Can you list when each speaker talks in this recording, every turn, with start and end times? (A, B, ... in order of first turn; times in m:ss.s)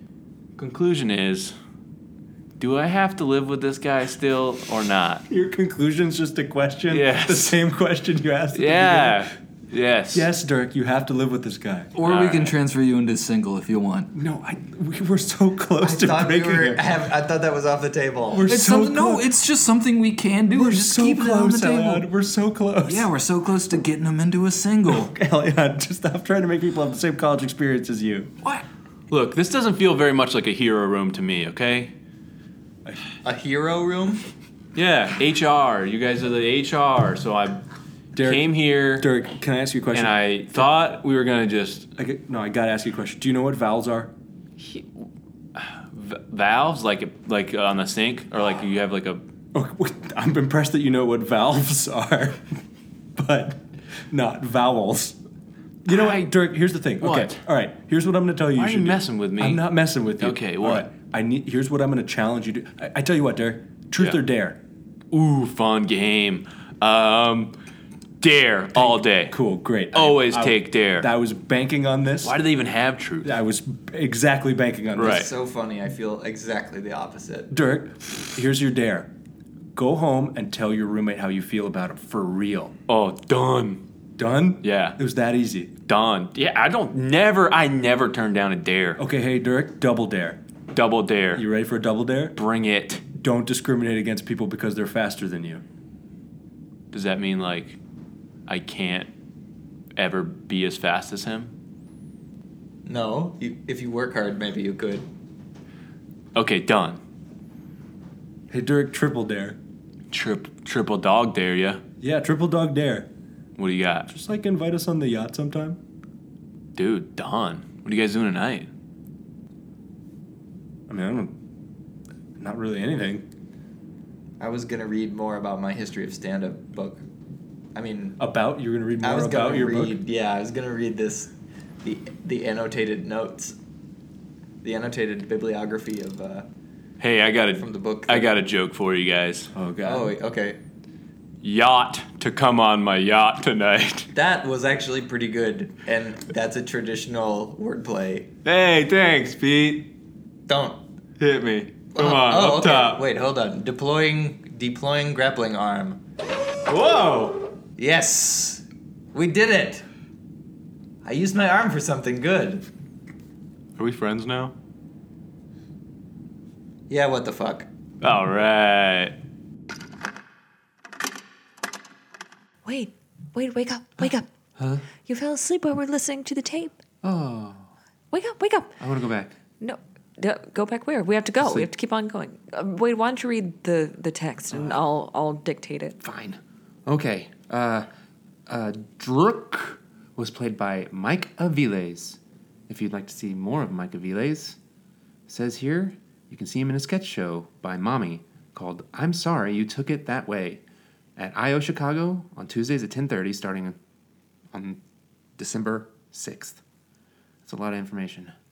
0:00.6-0:01.5 A
0:02.6-0:05.2 A
0:05.3-0:09.3 B
0:06.9-0:07.6 A
0:08.5-0:10.3 A
0:10.1-0:11.9 B
0:11.9-0:14.1 C
0:12.0-0:12.6 A
0:14.1-0:16.9 B
0:15.8-0:18.5 D
0:18.3-0:19.3 B
0:18.4-0:22.1 C
0:20.5-0:23.1 B
0:22.8-0:25.1 C
0:24.9-0:28.3 B
0:28.4-0:31.9 A
0:33.2-0:34.2 D
0:34.7-0:37.6 A
0:38.2-0:40.7 B
0:38.2-0:39.1 A
0:39.9-0:41.9 A
0:42.0-0:44.1 B
0:44.6-0:45.0 A
0:45.5-0:49.2 A
0:49.5-0:52.6 B
0:53.2-0:55.2 B
0:55.8-0:56.3 A
0:55.8-1:04.6 B
0:57.0-0:57.4 A
0:58.6-0:59.7 A
1:00.2-1:00.9 A
1:05.1-1:07.5 A
1:08.2-1:09.4 A
1:08.7-1:12.4 B
1:09.9-1:11.1 A
1:12.2-1:13.3 A
1:13.2-1:15.2 B
1:15.0-1:15.3 A
1:15.1-1:17.5 D
1:17.5-1:19.1 B
1:19.7-1:22.7 B
1:22.9-1:23.8 A
1:24.2-1:25.7 B
1:24.6-1:25.0 A
1:25.9-1:29.0 A
1:29.0-1:30.4 B
1:30.7-1:31.4 A
1:31.3-1:32.4 B
1:32.4-1:33.0 A
1:33.1-1:35.6 B
1:36.9-1:37.8 A
1:38.5-1:39.1 A
1:40.0-1:41.5 A
1:42.8-1:45.1 D
1:46.3-1:47.0 A
1:48.5-1:49.6 B
1:50.1-1:51.8 A
1:52.0-1:53.1 B
1:53.6-1:54.1 A
1:54.1-1:55.8 B
1:56.7-1:58.7 A
2:00.9-2:01.3 B
2:02.4-2:03.2 B
2:04.4-2:07.0 D
2:07.7-2:08.2 D
2:08.2-2:10.0 B
2:09.0-2:11.3 D
2:11.8-2:13.5 D
2:14.6-2:16.5 D
2:17.0-2:20.1 A
2:17.6-2:18.3 D
2:19.8-2:20.6 D
2:21.4-2:24.1 A
2:24.1-2:28.3 D
2:28.4-2:29.9 A
2:30.5-2:30.8 D
2:31.2-2:33.0 A
2:31.9-2:36.0 D
2:36.7-2:37.4 A
2:37.8-2:39.8 D
2:41.0-2:42.6 D
2:43.8-2:44.5 A
2:46.9-2:47.7 D
2:48.0-2:49.2 A
2:52.6-2:54.3 E
2:54.6-2:54.9 F
2:55.0-2:56.8 E
2:57.0-2:57.6 F
2:58.1-2:58.8 E
2:58.8-2:59.3 F
2:59.6-3:06.0 E
3:01.4-3:01.7 F
3:04.5-3:04.8 F
3:06.0-3:07.9 F
3:08.5-3:14.6 F
3:15.3-3:20.6 F
3:21.2-3:23.8 F
3:24.5-3:24.8 F
3:25.4-3:26.6 F
3:27.4-3:28.3 F